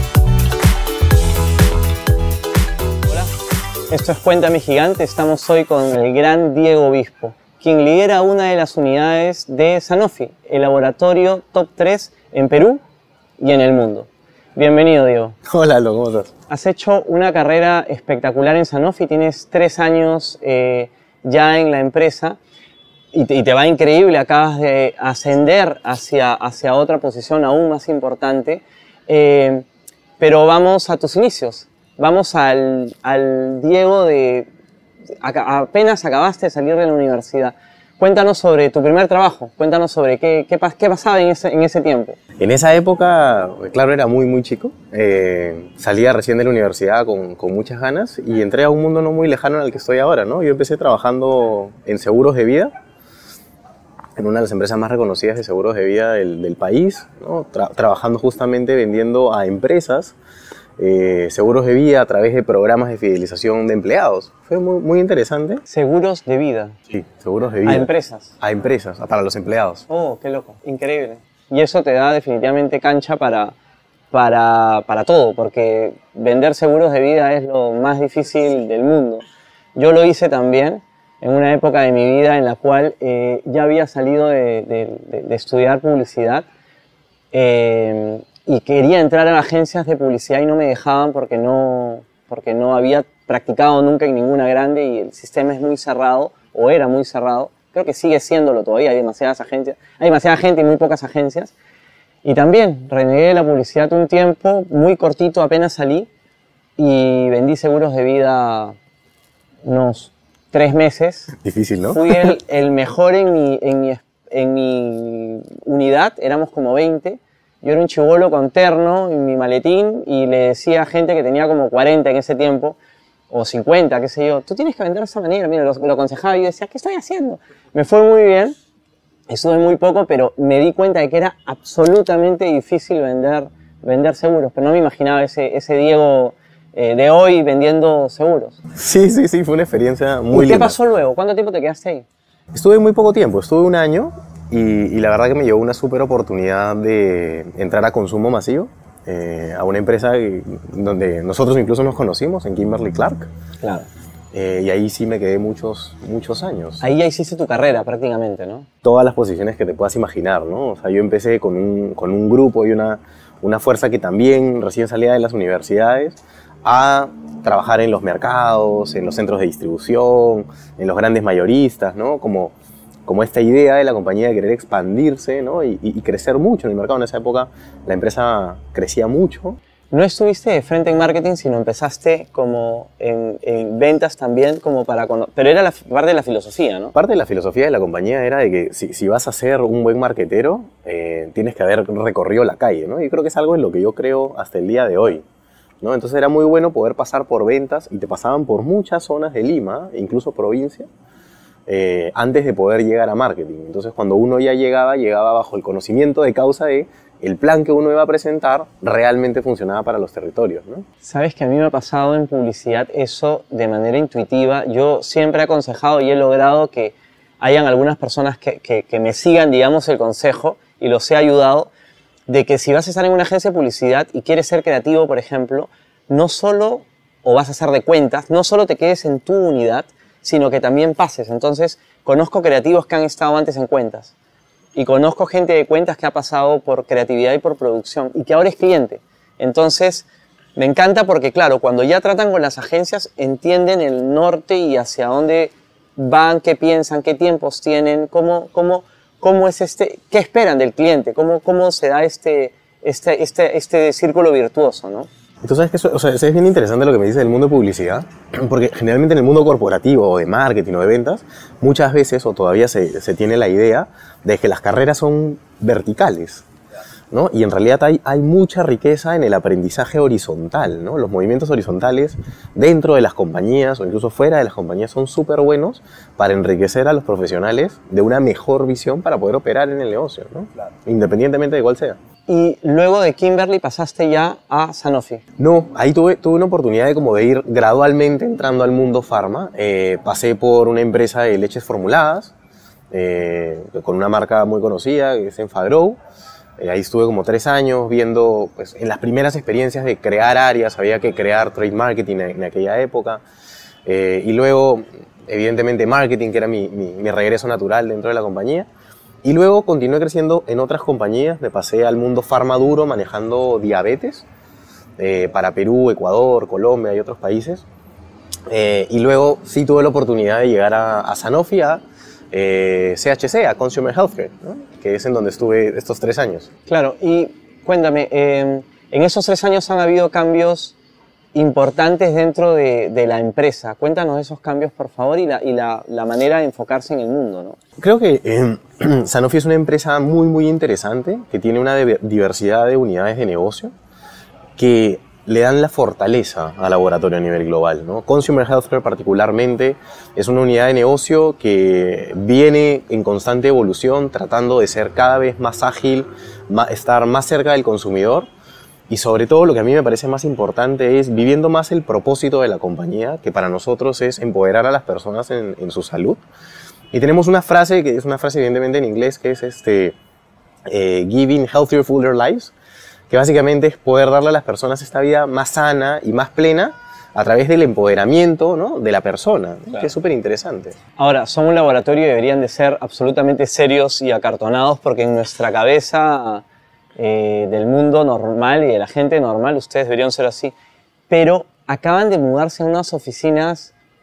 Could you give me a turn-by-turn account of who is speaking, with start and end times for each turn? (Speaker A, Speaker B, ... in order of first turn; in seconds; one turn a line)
Speaker A: 3.1-3.3
Speaker A: 3.9-12.8
Speaker A: 13.4-15.4
Speaker B: 15.4-16.3
Speaker A: 16.5-22.4
Speaker A: 23.1-29.6
Speaker A: 30.2-34.5
Speaker A: 35.2-42.2
Speaker B: 42.4-52.7
Speaker B: 54.2-60.1
Speaker B: 60.8-65.6
Speaker A: 65.7-66.8
Speaker B: 66.9-67.9
Speaker A: 67.7-68.3
Speaker B: 68.4-69.9
Speaker A: 69.9-73.5
Speaker A: 74.1-79.2
Speaker A: 79.8-86.5
Speaker A: 87.3-101.5
Speaker A: 102.2-106.1
Speaker A: 106.8-108.8
Speaker A: 109.7-111.4
Speaker B: 111.4-112.3
Speaker A: 111.9-122.8
Speaker A: 123.3-128.6
Speaker A: 129.3-138.6
Speaker B: 138.7-140.8
Speaker A: 140.3-142.1
Speaker B: 142.5-153.3
Speaker A: 153.6-153.9
Speaker B: 154.3-156.8
Speaker A: 156.8-158.7
Speaker B: 158.8-172.5
Speaker B: 173.1-179.6
Speaker A: 179.9-186.9
Speaker B: 186.9-195.2
Speaker B: 195.8-200.9
Speaker B: 201.7-210.9
Speaker A: 211.0-221.7
Speaker A: 222.3-234.2
Speaker A: 234.8-255.1
Speaker B: 255.4-266.4
Speaker B: 267.1-282.0
Speaker A: 282.3-285.2
Speaker B: 285.4-292.3
Speaker B: 292.9-296.0
Speaker B: 296.6-303.2
Speaker B: 303.9-308.7
Speaker B: 309.2-314.3
Speaker B: 315.0-317.6
Speaker B: 318.5-326.5
Speaker A: 326.7-330.8
Speaker A: 331.3-337.6
Speaker B: 337.8-343.7
Speaker B: 344.6-358.3
Speaker B: 358.9-366.2
Speaker B: 366.9-370.0
Speaker B: 370.7-372.5
Speaker B: 373.1-380.8
Speaker A: 381.0-386.4
Speaker A: 387.0-390.5
Speaker A: 391.1-393.7